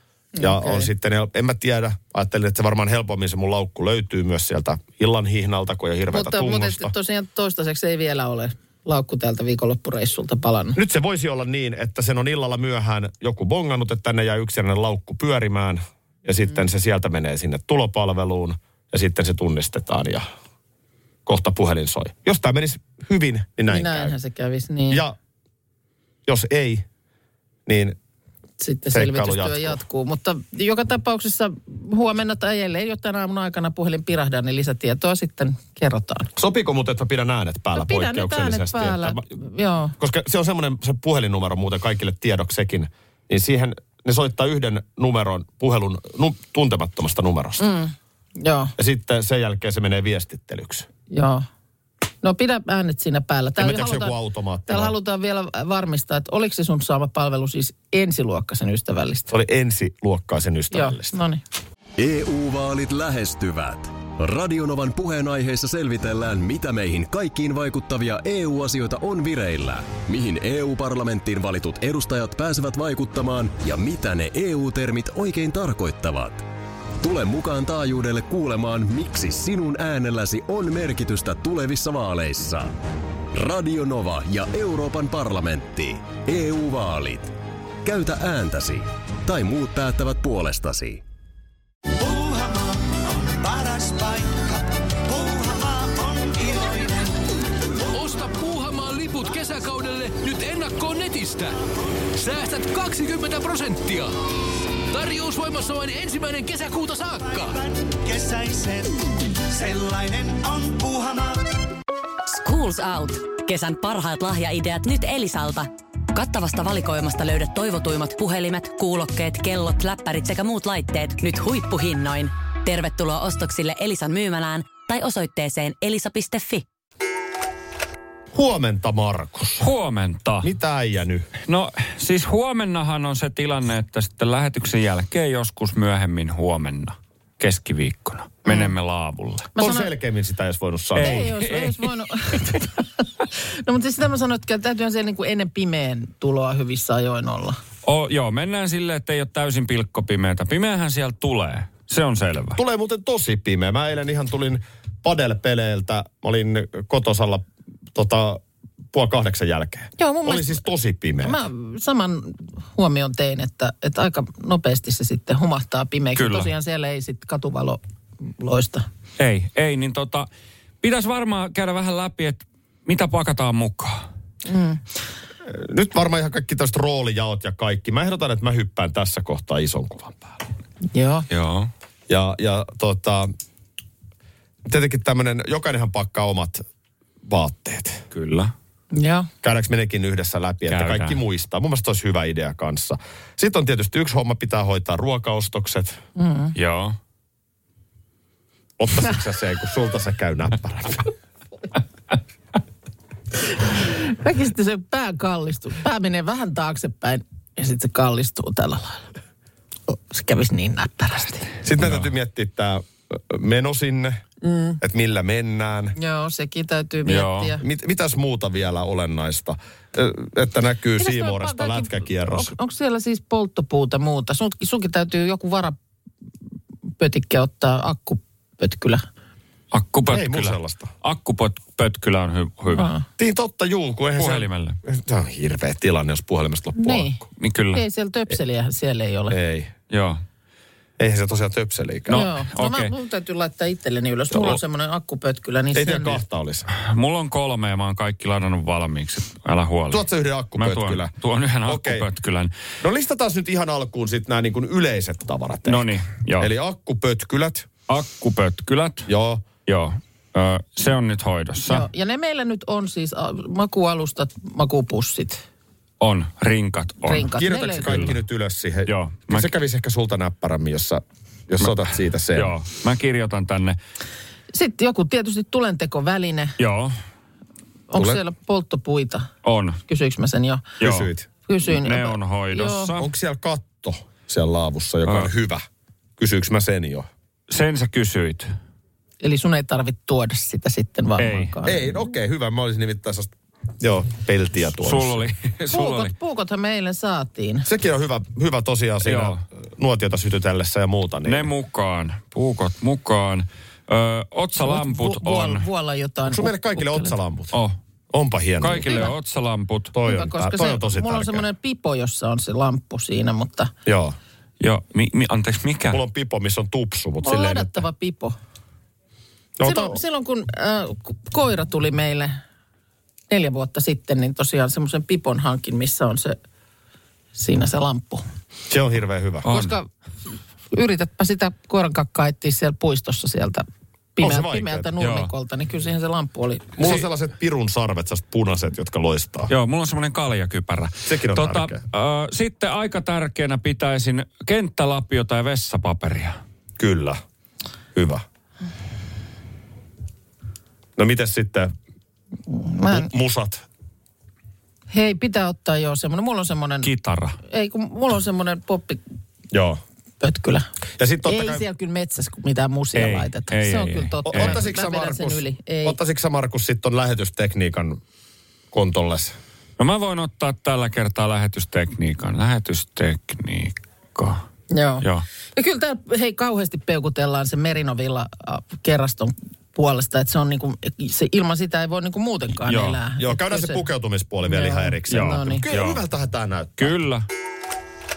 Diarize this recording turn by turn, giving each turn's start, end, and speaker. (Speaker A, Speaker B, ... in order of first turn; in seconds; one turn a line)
Speaker A: 0.4-0.9
Speaker B: 0.4-6.9
Speaker A: 6.1-10.8
Speaker B: 10.8-20.3
Speaker B: 21.3-24.1
Speaker A: 23.7-25.0
Speaker B: 24.9-25.2
Speaker B: 26.3-26.9
Speaker B: 27.7-28.0
Speaker A: 28.6-36.3
Speaker B: 28.9-29.8
Speaker B: 36.4-39.3
Speaker A: 37.8-40.0
Speaker B: 40.0-47.6
Speaker A: 47.6-48.7
Speaker B: 48.8-50.9
Speaker A: 51.1-51.5
Speaker A: 52.2-54.1
Speaker B: 53.6-54.9
Speaker A: 54.7-59.3
Speaker B: 59.3-61.2
Speaker A: 60.7-61.4
Speaker C: 62.0-76.5
Speaker C: 77.0-82.8
Speaker C: 83.3-91.0
Speaker D: 92.0-97.3
Speaker E: 97.9-101.6
Speaker E: 102.2-104.1
Speaker E: 104.9-107.6
Speaker D: 107.2-111.5
Speaker F: 112.3-126.7
Speaker B: 128.3-129.7
Speaker G: 129.6-130.5
Speaker B: 130.4-131.3
Speaker G: 131.5-139.5
Speaker A: 139.6-139.9
Speaker B: 139.6-141.3
Speaker A: 141.0-147.6
Speaker G: 141.0-141.9
Speaker G: 147.8-152.6
Speaker B: 152.6-158.4
Speaker B: 158.9-161.4
Speaker A: 160.0-160.6
Speaker A: 161.2-167.8
Speaker G: 166.2-166.5
Speaker A: 168.3-168.9
Speaker G: 169.2-170.3
Speaker G: 170.8-174.1
Speaker A: 174.4-174.8
Speaker B: 175.4-180.4
Speaker A: 180.9-181.3
Speaker G: 181.3-181.7
Speaker B: 182.1-183.3
Speaker B: 184.7-186.7
Speaker B: 187.2-188.0
Speaker G: 188.1-188.5
Speaker A: 188.9-189.3
Speaker B: 189.4-196.0
Speaker G: 190.7-191.2
Speaker A: 196.2-196.5
Speaker G: 196.6-197.0
Speaker B: 198.8-201.1
Speaker A: 203.6-209.1
Speaker A: 209.9-211.5
Speaker B: 211.6-214.2
Speaker G: 211.8-212.1
Speaker A: 214.4-214.8
Speaker B: 214.8-216.0
Speaker A: 216.0-217.6
Speaker G: 217.1-217.5
Speaker B: 217.6-222.5
Speaker A: 221.0-225.8
Speaker A: 227.0-229.1
Speaker G: 229.7-232.9
Speaker B: 230.1-230.9
Speaker A: 232.7-233.0
Speaker B: 233.2-237.1
Speaker G: 234.2-234.8
Speaker A: 236.8-237.2
Speaker G: 237.4-237.8
Speaker A: 237.7-239.4
Speaker B: 239.3-239.7
Speaker G: 239.9-240.2
Speaker B: 241.0-242.3
Speaker G: 242.1-242.9
Speaker A: 242.1-246.2
Speaker B: 245.7-246.7
Speaker G: 246.7-250.1
Speaker B: 249.9-251.1
Speaker G: 250.6-252.5
Speaker B: 251.7-252.1
Speaker B: 252.8-257.7
Speaker G: 255.7-256.5
Speaker G: 257.9-259.1
Speaker B: 259.1-259.5
Speaker G: 259.7-261.9
Speaker A: 261.6-265.4
Speaker G: 266.0-268.2
Speaker A: 267.1-268.1
Speaker B: 267.4-272.5
Speaker G: 268.9-269.5
Speaker G: 272.3-273.8
Speaker A: 274.5-276.6
Speaker G: 276.6-276.9
Speaker A: 277.9-279.3
Speaker B: 277.9-278.2
Speaker G: 279.4-279.8
Speaker A: 279.9-280.7
Speaker G: 280.8-281.1
Speaker B: 280.8-281.3
Speaker A: 281.5-282.9
Speaker G: 281.7-283.1
Speaker B: 283.0-285.6
Speaker G: 285.1-285.3
Speaker B: 286.2-287.1
Speaker G: 287.5-288.5
Speaker A: 289.2-292.0
Speaker G: 291.2-291.5
Speaker B: 291.6-295.3
Speaker G: 294.8-296.1
Speaker A: 295.7-297.7
Speaker B: 297.7-301.5
Speaker G: 299.0-299.4
Speaker G: 301.2-305.7
Speaker A: 304.6-307.1
Speaker B: 306.3-307.6
Speaker G: 307.5-307.8
Speaker B: 308.1-309.0
Speaker G: 308.6-309.9
Speaker A: 308.9-309.1
Speaker B: 309.9-311.4
Speaker A: 310.1-313.7
Speaker B: 313.9-314.2
Speaker G: 314.6-316.0
Speaker B: 315.9-317.8
Speaker A: 317.2-318.4
Speaker B: 319.6-320.0
Speaker A: 319.6-322.4
Speaker A: 323.3-326.4
Speaker A: 327.4-328.2
Speaker B: 328.7-329.5
Speaker G: 329.4-329.8
Speaker A: 329.5-329.9
Speaker A: 330.7-336.8
Speaker B: 334.2-334.9
Speaker G: 335.0-335.3
Speaker B: 336.8-339.5
Speaker G: 339.5-346.4
Speaker B: 341.1-341.8
Speaker B: 346.8-347.2
Speaker B: 347.9-348.2
Speaker B: 351.0-351.7
Speaker A: 352.5-353.1
Speaker B: 352.9-353.6
Speaker A: 354.9-356.9
Speaker G: 356.8-357.4
Speaker A: 357.5-359.0
Speaker B: 359.5-359.8
Speaker A: 360.2-360.7
Speaker B: 361.0-361.6
Speaker A: 361.2-366.0
Speaker G: 362.9-364.6
Speaker B: 364.3-368.0
Speaker B: 368.7-369.4
Speaker G: 369.8-374.4
Speaker A: 374.7-383.9
Speaker G: 375.0-375.3
Speaker G: 382.6-383.0
Speaker B: 383.2-386.9
Speaker A: 384.4-385.6
Speaker G: 385.1-386.0
Speaker G: 386.8-387.3